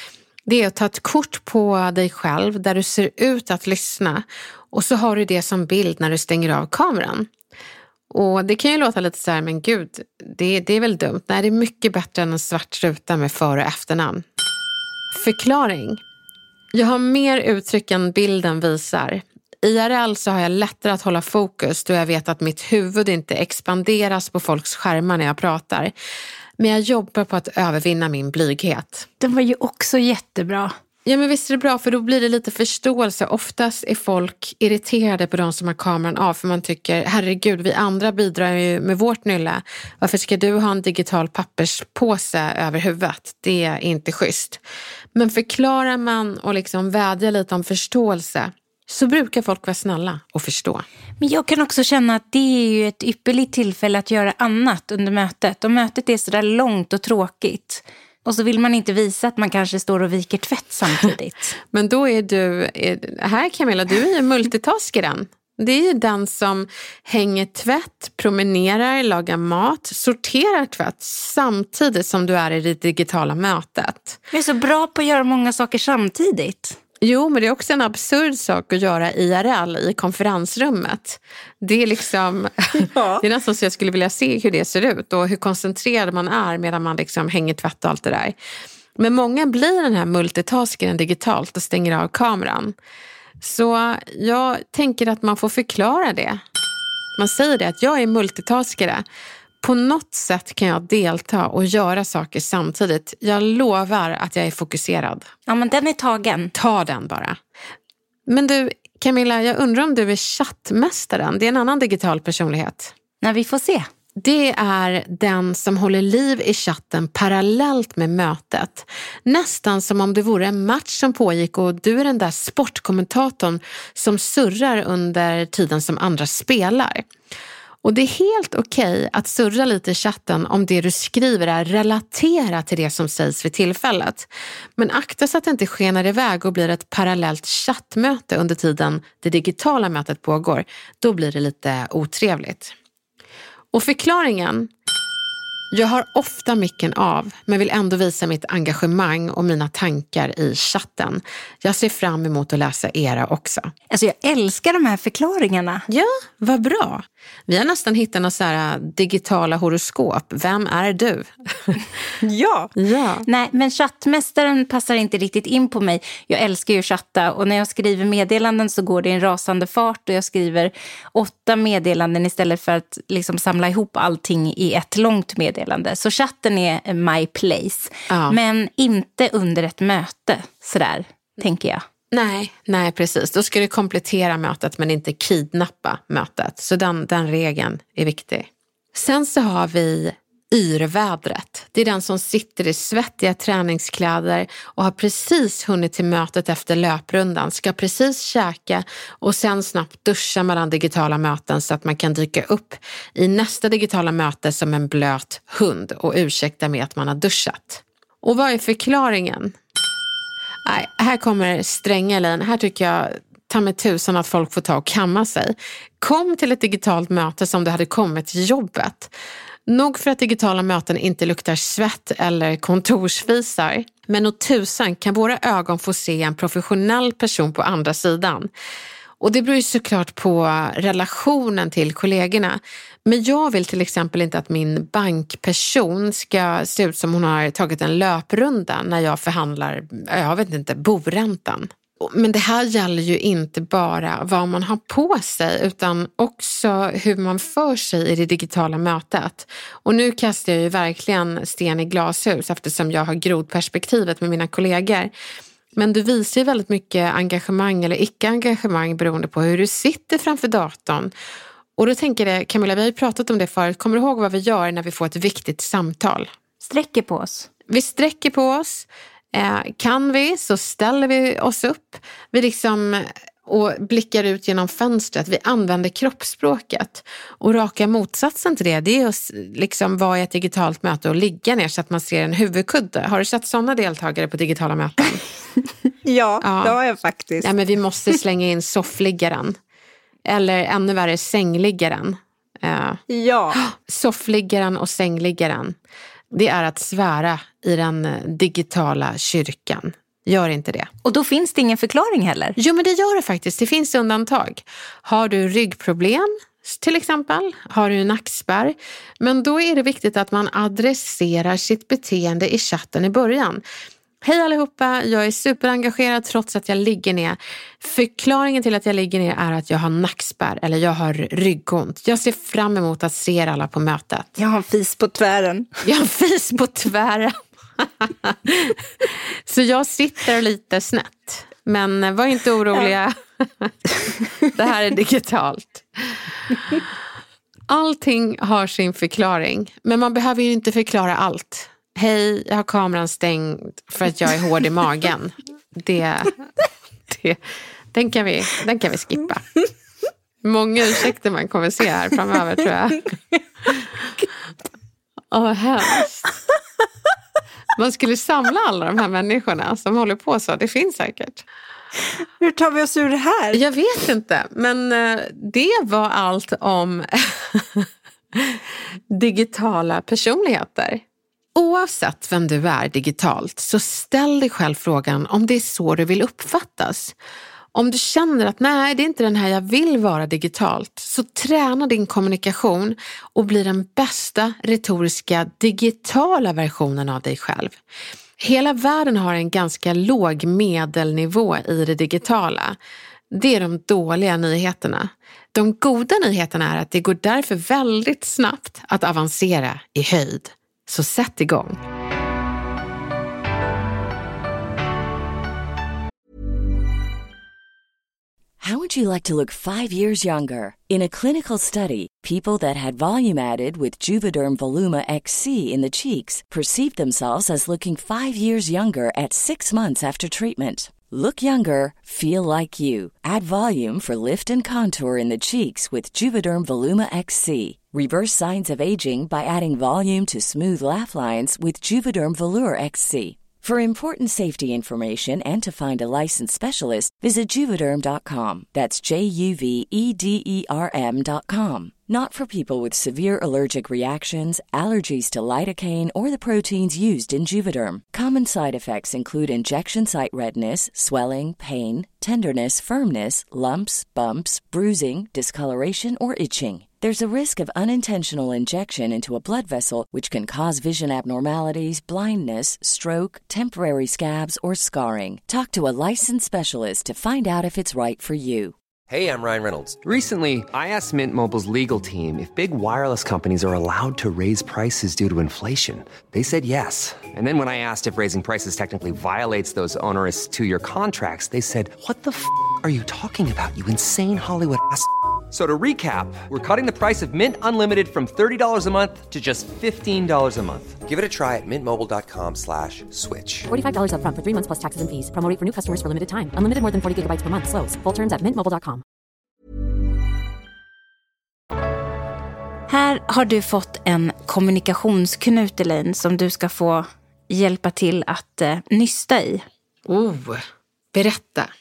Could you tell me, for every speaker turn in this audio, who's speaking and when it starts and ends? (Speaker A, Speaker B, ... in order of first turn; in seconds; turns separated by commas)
Speaker A: 0.5-7.3, Speaker A: 8.1-14.3, Speaker A: 15.1-16.0, Speaker A: 16.7-25.9, Speaker A: 26.6-29.1, Speaker B: 29.2-30.7, Speaker A: 31.1-44.6, Speaker A: 45.1-50.9, Speaker B: 51.2-61.6, Speaker A: 61.7-74.2, Speaker B: 74.3-76.8, Speaker A: 77.0-88.4, Speaker B: 82.8-83.2, Speaker A: 89.0-92.8, Speaker A: 93.4-96.4, Speaker A: 97.2-99.0, Speaker A: 99.6-105.3, Speaker B: 105.5-106.5, Speaker A: 106.5-107.4, Speaker A: 108.3-112.9, Speaker B: 113.2-113.9, Speaker A: 114.2-127.1, Speaker A: 127.8-142.8, Speaker A: 143.7-144.7, Speaker A: 145.7-153.7, Speaker B: 153.9-155.8, Speaker A: 155.9-161.8, Speaker B: 162.2-162.7, Speaker A: 162.8-163.3, Speaker B: 163.3-181.8, Speaker A: 178.1-178.4, Speaker A: 182.1-209.6, Speaker A: 210.7-219.1, Speaker A: 219.7-228.5, Speaker A: 229.2-255.1, Speaker A: 255.8-261.1, Speaker A: 261.8-266.3, Speaker B: 266.6-267.5, Speaker A: 267.7-285.2, Speaker B: 286.0-287.5, Speaker A: 286.4-286.8, Speaker A: 287.4-289.6, Speaker A: 290.3-293.0, Speaker B: 293.1-293.6, Speaker A: 293.6-295.8, Speaker A: 296.3-300.9, Speaker B: 301.1-302.6, Speaker A: 302.6-313.6, Speaker A: 314.2-324.4, Speaker B: 324.4-325.7, Speaker A: 325.8-333.8, Speaker A: 334.4-336.9, Speaker A: 337.7-346.4, Speaker A: 347.1-347.4, Speaker A: 347.9-349.6, Speaker A: 350.4-353.1, Speaker A: 355.3-356.3, Speaker A: 357.8-361.4, Speaker B: 362.4-363.6, Speaker A: 363.5-371.0, Speaker A: 371.6-377.1, Speaker A: 377.7-387.8, Speaker A: 388.4-392.8, Speaker A: 393.3-401.8, Speaker C: 408.6-468.7, Speaker D: 469.1-493.7, Speaker E: 493.7-499.0, Speaker B: 502.9-509.6, Speaker A: 510.1-511.7